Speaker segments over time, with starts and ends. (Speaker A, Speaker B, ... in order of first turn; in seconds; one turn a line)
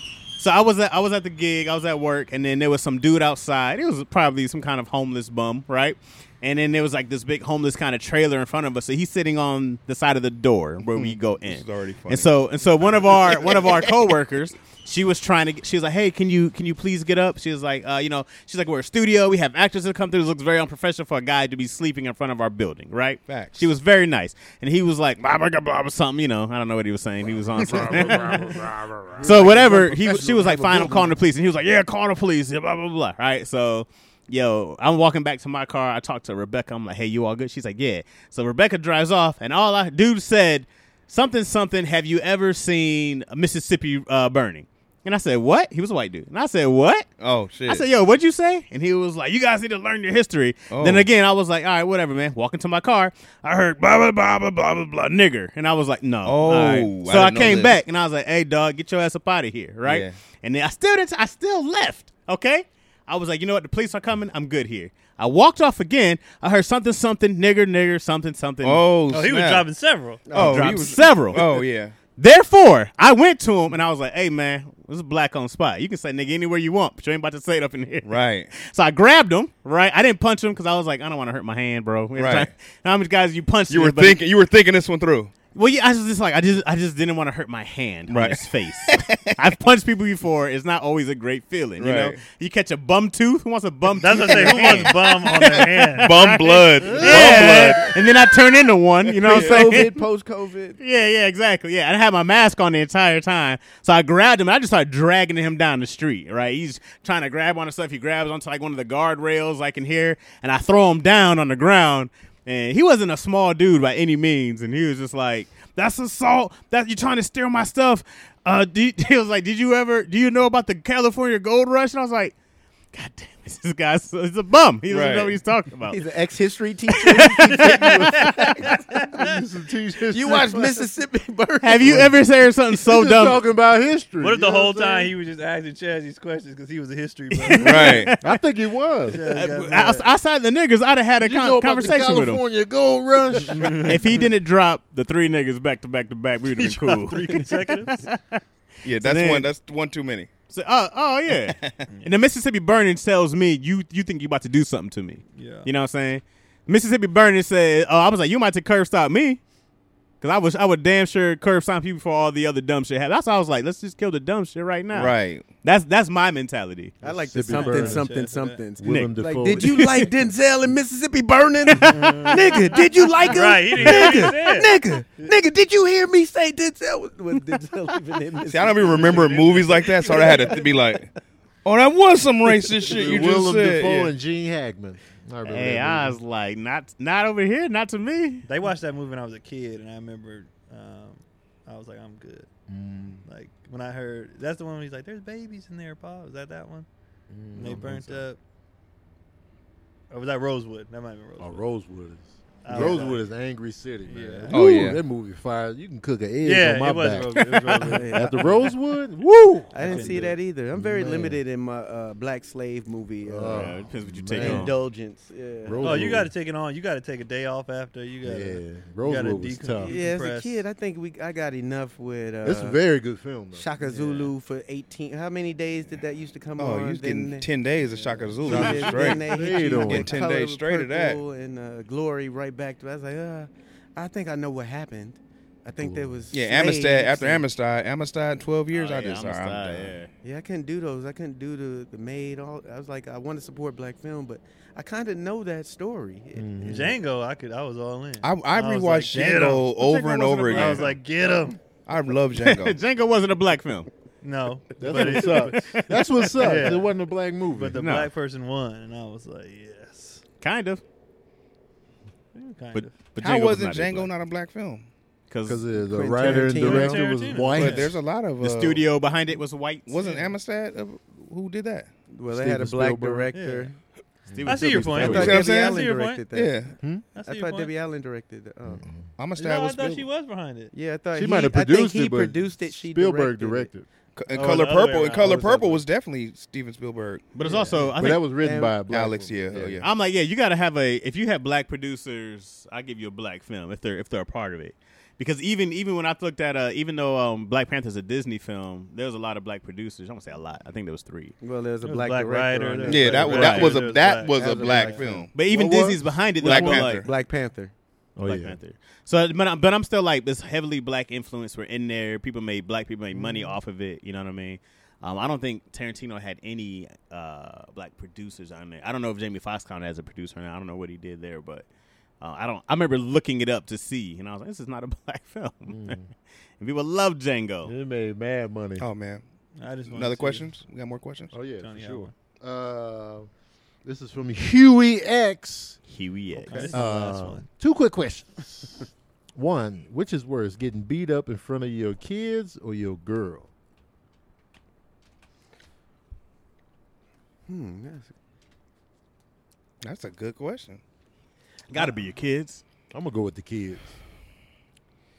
Speaker A: 0.4-28.6
Speaker B: 10.9-12.3
Speaker B: 13.0-13.8
Speaker B: 23.3-23.7
Speaker B: 27.7-29.2
Speaker C: 27.9-31.1
Speaker A: 29.2-47.1
Speaker B: 47.2-47.8
Speaker A: 47.7-68.8
Speaker B: 50.7-51.1
Speaker B: 56.2-57.8
Speaker B: 59.8-60.1
Speaker B: 68.6-69.7
Speaker D: 69.1-70.3
Speaker C: 70.2-71.5
Speaker B: 70.3-71.9
Speaker A: 70.3-71.6
Speaker A: 72.2-84.2
Speaker B: 78.0-78.5
Speaker B: 82.2-82.5
Speaker B: 83.7-85.3
Speaker A: 85.5-100.0
Speaker B: 88.1-89.4
Speaker B: 91.8-92.2
Speaker D: 94.0-96.2
Speaker B: 94.3-98.0
Speaker D: 96.8-97.6
Speaker B: 99.1-99.8
Speaker C: 99.2-100.8
Speaker A: 100.8-122.3
Speaker A: 122.9-126.0
Speaker B: 124.9-125.3
Speaker C: 125.9-129.0
Speaker A: 127.0-128.5
Speaker E: 127.6-130.9
Speaker D: 128.6-129.4
Speaker C: 130.1-132.1
Speaker A: 131.6-133.4
Speaker E: 131.8-132.1
Speaker E: 132.8-135.1
Speaker D: 134.2-138.2
Speaker A: 137.5-138.2
Speaker B: 137.6-138.1
Speaker E: 138.2-139.2
Speaker D: 139.0-140.1
Speaker A: 139.1-142.4
Speaker E: 141.2-143.9
Speaker D: 143.5-144.2
Speaker A: 143.7-149.5
Speaker D: 146.5-148.0
Speaker B: 148.8-150.3
Speaker A: 150.5-159.4
Speaker B: 151.3-151.8
Speaker D: 155.3-155.7
Speaker A: 160.2-166.9
Speaker B: 164.9-165.4
Speaker C: 167.0-180.9
Speaker E: 167.1-168.1
Speaker D: 167.4-168.6
Speaker E: 168.8-170.1
Speaker A: 168.8-170.1
Speaker D: 171.8-175.3
Speaker E: 173.8-174.2
Speaker B: 178.5-181.1
Speaker D: 178.9-180.4
Speaker B: 181.6-184.1
Speaker E: 182.8-186.2
Speaker A: 185.4-188.4
Speaker D: 188.4-192.5
Speaker E: 192.7-193.2
Speaker D: 193.2-196.8
Speaker E: 197.3-198.2
Speaker D: 197.5-198.4
Speaker D: 200.1-201.6
Speaker E: 201.4-211.4
Speaker D: 202.6-203.2
Speaker C: 202.7-203.0
Speaker D: 204.1-204.8
Speaker B: 204.5-205.0
Speaker D: 206.4-208.7
Speaker C: 207.8-208.5
Speaker C: 209.7-213.7
Speaker D: 209.8-210.3
Speaker E: 213.2-214.7
Speaker A: 213.5-214.8
Speaker C: 214.3-216.2
Speaker E: 215.6-216.3
Speaker D: 215.8-220.6
Speaker E: 218.2-219.9
Speaker C: 219.8-222.8
Speaker E: 222.4-223.7
Speaker C: 223.5-227.5
Speaker D: 223.9-224.2
Speaker B: 226.6-231.2
Speaker D: 227.8-229.2
Speaker C: 228.4-237.5
Speaker E: 228.5-230.1
Speaker E: 235.8-236.2
Speaker B: 236.3-239.9
Speaker A: 238.7-240.1
Speaker C: 240.2-246.9
Speaker E: 246.3-246.9
Speaker D: 246.6-249.7
Speaker B: 248.2-250.9
Speaker A: 249.8-250.9
Speaker D: 250.4-251.6
Speaker B: 251.8-252.8
Speaker A: 252.3-253.9
Speaker D: 254.2-255.8
Speaker E: 254.8-257.8
Speaker A: 254.9-256.8
Speaker D: 256.4-256.9
Speaker D: 257.5-260.2
Speaker A: 257.8-258.1
Speaker A: 260.4-260.8
Speaker D: 262.3-263.1
Speaker A: 262.7-264.1
Speaker B: 263.2-264.9
Speaker A: 265.3-265.6
Speaker E: 265.4-268.0
Speaker C: 265.9-267.0
Speaker D: 266.2-267.9
Speaker B: 267.4-268.8
Speaker A: 268.4-270.2
Speaker B: 269.9-271.9
Speaker D: 270.0-270.3
Speaker C: 272.1-273.8
Speaker E: 272.3-273.3
Speaker D: 273.3-273.7
Speaker E: 274.3-275.4
Speaker A: 274.3-275.3
Speaker D: 274.4-276.2
Speaker C: 274.9-278.9
Speaker B: 275.0-276.8
Speaker D: 277.1-277.7
Speaker E: 278.7-279.1
Speaker B: 279.2-280.1
Speaker D: 279.4-280.7
Speaker C: 280.7-283.7
Speaker E: 281.1-283.9
Speaker B: 284.1-287.3
Speaker D: 284.3-285.4
Speaker C: 285.1-285.8
Speaker A: 287.3-288.2
Speaker E: 287.7-289.8
Speaker C: 288.4-288.8
Speaker B: 288.9-289.9
Speaker A: 289.8-301.3
Speaker C: 301.4-303.7
Speaker D: 301.8-305.0
Speaker B: 302.9-305.3
Speaker A: 303.2-303.8
Speaker C: 304.3-305.3
Speaker A: 305.3-307.0
Speaker E: 305.5-306.8
Speaker B: 306.4-307.1
Speaker C: 306.4-307.7
Speaker E: 308.1-308.6
Speaker A: 308.2-321.6
Speaker A: 322.2-326.0
Speaker E: 325.7-326.0
Speaker A: 326.6-327.7
Speaker E: 327.6-328.9
Speaker B: 328.8-329.2
Speaker D: 329.6-330.5
Speaker B: 329.9-331.4
Speaker E: 331.3-333.3
Speaker D: 331.5-332.1
Speaker E: 333.8-335.8
Speaker A: 335.9-336.7
Speaker D: 336.4-337.4
Speaker E: 336.6-343.5
Speaker C: 347.5-348.1
Speaker B: 349.8-350.8
Speaker A: 351.7-352.6
Speaker E: 352.9-353.9